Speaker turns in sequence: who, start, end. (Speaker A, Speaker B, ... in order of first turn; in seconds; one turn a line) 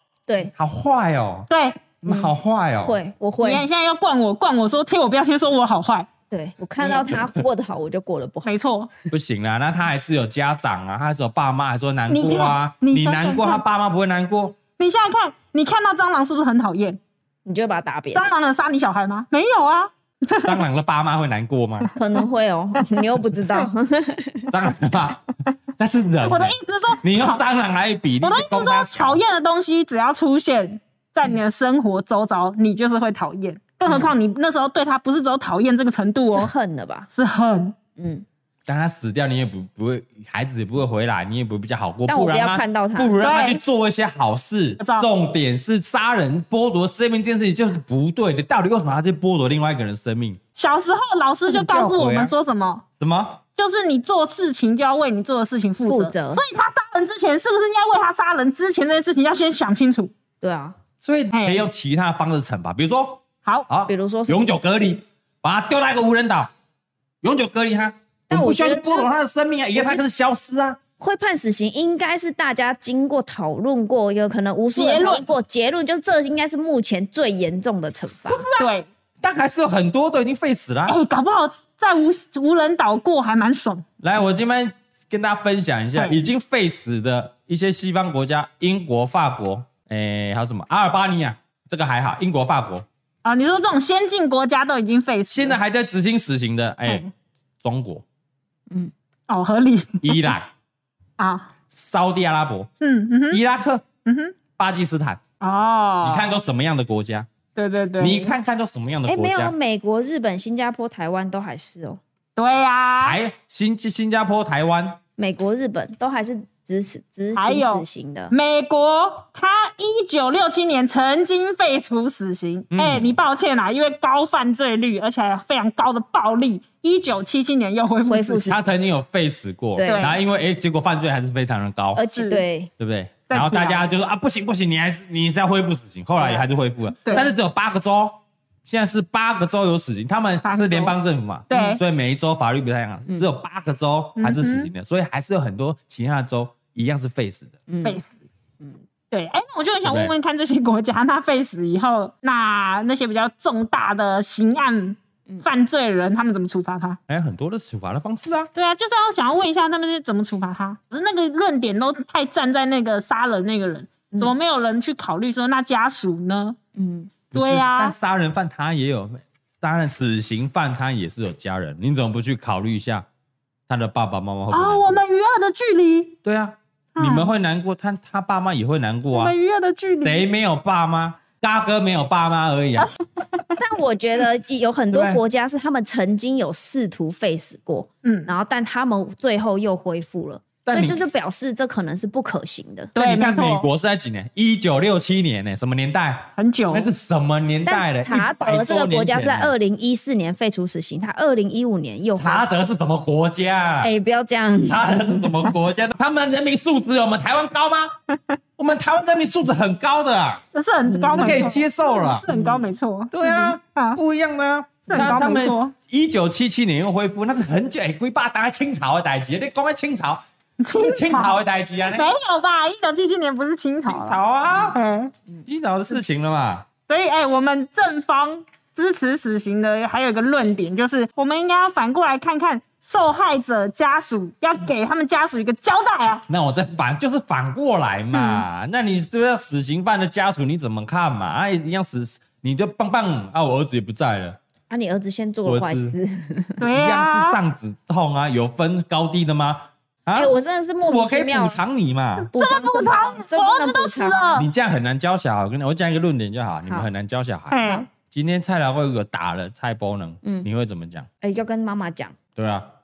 Speaker A: 0.3-0.5
Speaker B: 0.6-1.5
Speaker C: 1.5-1.8
Speaker B: 2.0-3.0
Speaker A: 2.1-3.6
Speaker C: 3.4-6.1
Speaker A: 6.3-8.5
Speaker B: 6.9-7.2
Speaker C: 8.4-8.9
Speaker B: 9.1-14.6
Speaker C: 12.1-13.6
Speaker C: 14.8-17.0
Speaker A: 17.4-18.3
Speaker C: 18.1-20.6
Speaker B: 20.4-21.9
Speaker A: 22.0-24.5
Speaker B: 24.5-25.2
Speaker B: 25.8-29.2
Speaker C: 26.2-27.4
Speaker C: 28.2-36.5
Speaker A: 33.9-34.1
Speaker A: 36.3-37.1
Speaker C: 37.1-37.8
Speaker A: 38.0-38.2
Speaker B: 38.7-50.4
Speaker A: 42.1-43.2
Speaker C: 43.2-43.6
Speaker C: 44.8-45.1
Speaker C: 50.6-52.8
Speaker B: 51.5-52.3
Speaker B: 53.0-53.4
Speaker C: 53.6-60.1
Speaker A: 55.9-56.4
Speaker A: 60.4-60.8
Speaker B: 61.0-66.5
Speaker C: 61.3-61.6
Speaker A: 63.9-64.5
Speaker B: 67.2-70.8
Speaker A: 68.3-69.1
Speaker A: 71.0-78.5
Speaker C: 74.7-75.3
Speaker B: 78.3-78.7
Speaker C: 78.6-78.9
Speaker B: 79.2-81.0
Speaker C: 80.9-83.8
Speaker B: 84.0-92.8
Speaker C: 93.2-95.6
Speaker B: 95.3-97.0
Speaker C: 96.9-97.1
Speaker B: 97.6-98.0
Speaker C: 99.3-100.3
Speaker B: 100.0-100.5
Speaker C: 101.2-101.5
Speaker B: 101.7-102.7
Speaker C: 102.8-103.4
Speaker B: 103.3-103.8
Speaker C: 104.0-104.3
Speaker B: 104.6-105.2
Speaker C: 105.4-106.3
Speaker B: 106.0-107.3
Speaker C: 107.6-108.3
Speaker B: 108.0-109.5
Speaker A: 109.1-112.0
Speaker C: 112.4-113.2
Speaker B: 113.0-115.0
Speaker A: 115.2-118.3
Speaker C: 117.3-128.5
Speaker B: 122.7-123.2
Speaker A: 128.1-128.7
Speaker B: 128.4-132.0
Speaker A: 129.8-130.1
Speaker C: 129.8-130.2
Speaker A: 131.9-132.7
Speaker C: 132.1-132.4
Speaker B: 132.8-147.6
Speaker C: 133.3-133.9
Speaker C: 140.4-140.9
Speaker C: 141.5-141.8
Speaker C: 144.2-144.7
Speaker A: 147.7-148.0
Speaker C: 149.1-157.0
Speaker B: 149.8-150.1
Speaker B: 157.1-158.5
Speaker C: 158.6-166.6
Speaker A: 166.8-167.1
Speaker C: 167.3-167.9
Speaker B: 167.3-173.1
Speaker B: 173.7-175.0
Speaker C: 174.5-176.2
Speaker B: 176.2-179.3
Speaker C: 177.0-177.3
Speaker C: 179.1-180.2
Speaker B: 179.9-182.9
Speaker A: 183.6-192.9
Speaker B: 184.9-185.2
Speaker C: 188.0-188.3
Speaker B: 190.7-191.0
Speaker C: 192.9-193.7
Speaker B: 193.0-199.5
Speaker C: 196.4-196.9
Speaker A: 197.7-202.5
Speaker B: 202.2-203.9
Speaker A: 203.8-204.9
Speaker B: 204.6-207.9
Speaker C: 208.1-208.4
Speaker B: 208.6-210.4
Speaker C: 210.5-214.0
Speaker A: 210.9-211.5
Speaker B: 211.1-212.3
Speaker A: 212.3-212.6
Speaker B: 213.1-220.2
Speaker C: 214.9-215.7
Speaker C: 220.6-221.3
Speaker B: 220.8-222.1
Speaker C: 221.9-224.2
Speaker B: 223.9-224.8
Speaker C: 224.7-225.1
Speaker B: 225.5-226.7
Speaker C: 226.9-236.2
Speaker B: 236.3-244.4
Speaker C: 238.2-238.4
Speaker A: 244.7-246.6
Speaker B: 245.4-245.9
Speaker C: 246.6-247.4
Speaker B: 246.7-250.3
Speaker A: 250.2-251.6
Speaker B: 250.9-252.3
Speaker A: 252.3-254.4
Speaker C: 252.3-254.5
Speaker B: 254.4-261.1
Speaker C: 257.5-257.9
Speaker A: 260.2-260.5
Speaker A: 261.2-262.2
Speaker B: 262.4-262.7